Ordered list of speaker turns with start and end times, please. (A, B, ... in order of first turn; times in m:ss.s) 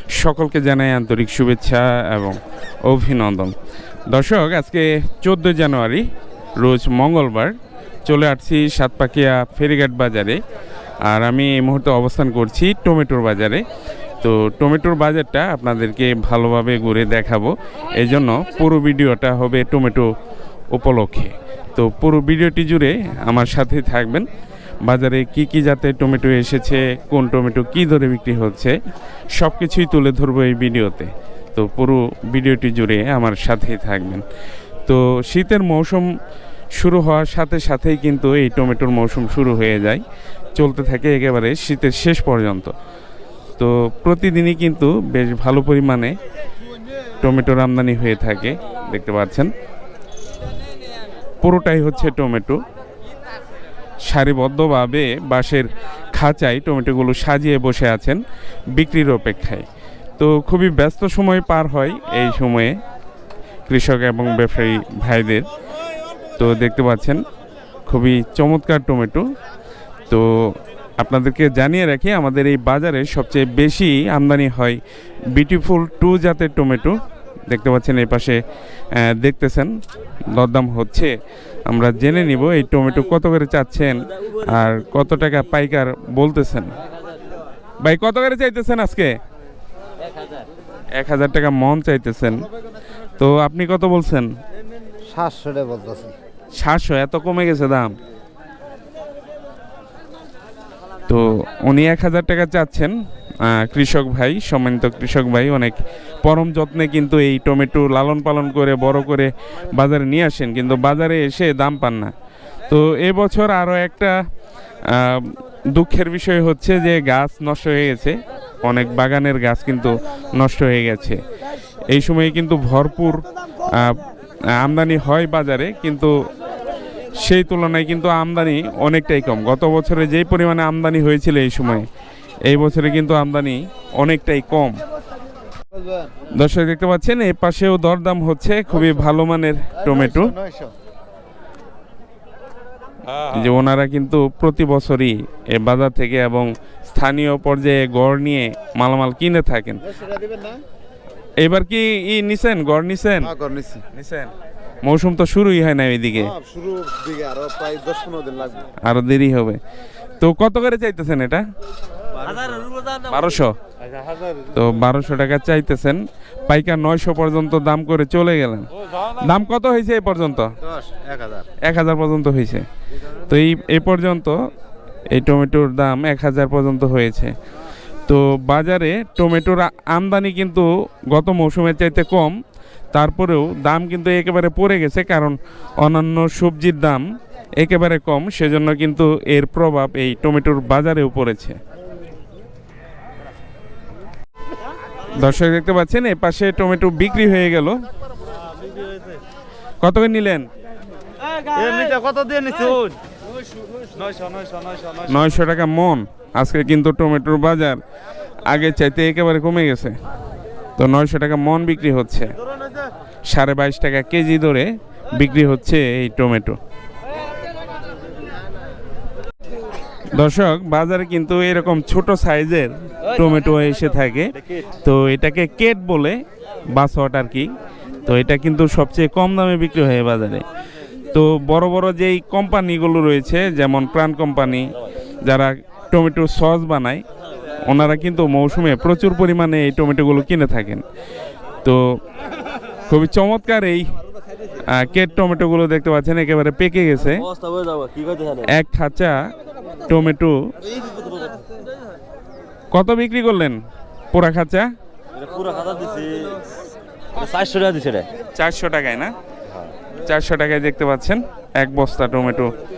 0:00.1-0:03.5 A
0:04.1-0:06.1 A
0:06.6-0:10.4 A
0:11.0-0:13.6 A
0:14.2-0:20.1 A
0:20.7-0:24.3 A
0:24.8-0:28.8 A
0:29.3-0:34.2 A
0:34.9-0:36.1 A
0:36.8-0:40.0 A
0:40.6-0:42.7 A
0:43.6-0:46.2 A
0:47.2-0:49.5 A
0:51.4-0:52.6 A
0:54.1-0:58.2 A
0:58.7-0:59.6 A
1:00.2-1:02.8 A
1:03.7-1:05.5 A
1:06.4-1:07.2 A
1:07.9-1:09.3 A
1:10.1-1:14.8 A
1:15.3-1:18.4 A
1:18.9-1:19.7 A
1:20.3-1:21.2 A
1:21.7-1:26.8 A
1:27.8-1:29.2 A
1:31.0-1:32.5 A
1:33.2-1:34.3 A
1:35.1-1:36.1 B
1:36.6-1:37.9 A
1:41.1-1:52.1 A
1:52.7-1:54.2 A
1:54.9-2:01.2 A
2:01.9-2:04.0 A
2:04.6-2:06.1 A
2:07.2-2:11.9 A
2:12.5-2:14.8 A
2:16.3-2:20.4 A
2:20.4-2:20.7 B
2:23.2-2:29.8 A
2:31.4-2:34.3 A
2:33.4-2:33.8 B
2:34.8-2:36.4 A
2:36.4-2:38.7 B
2:38.8-2:39.6 A
2:40.2-2:41.4 A
2:42.3-2:43.0 C
2:43.1-2:43.6 A
2:44.5-2:50.6 A
2:50.8-2:51.4 B
2:51.6-2:52.6 A
2:53.3-2:54.4 A
2:55.1-2:57.4 A
2:58.1-3:02.4 A
3:02.9-3:07.0 A
3:07.6-3:11.6 A
3:15.1-3:17.8 A
3:19.8-3:20.5 A
3:21.5-3:22.9 C
3:21.6-3:22.9 B
3:24.1-3:24.5 B
3:25.0-3:27.8 A
3:28.5-3:30.0 A
3:30.8-3:32.3 A
3:33.3-3:36.6 A
3:40.1-3:44.3 A
3:44.8-3:46.2 A
3:46.7-3:47.5 A
3:48.0-3:50.4 A
3:51.1-3:57.0 A
3:57.6-4:00.8 A
4:01.6-4:02.0 A
4:02.9-4:04.0 A
4:04.6-4:07.3 A
4:07.3-4:08.4 C
4:08.4-4:09.2 A
4:09.9-4:10.4 A
4:10.9-4:11.2 C
4:12.7-4:13.6 A
4:14.1-4:14.7 A
4:15.2-4:16.4 C
4:17.2-4:18.1 C
4:18.4-4:19.1 A
4:20.0-4:22.5 A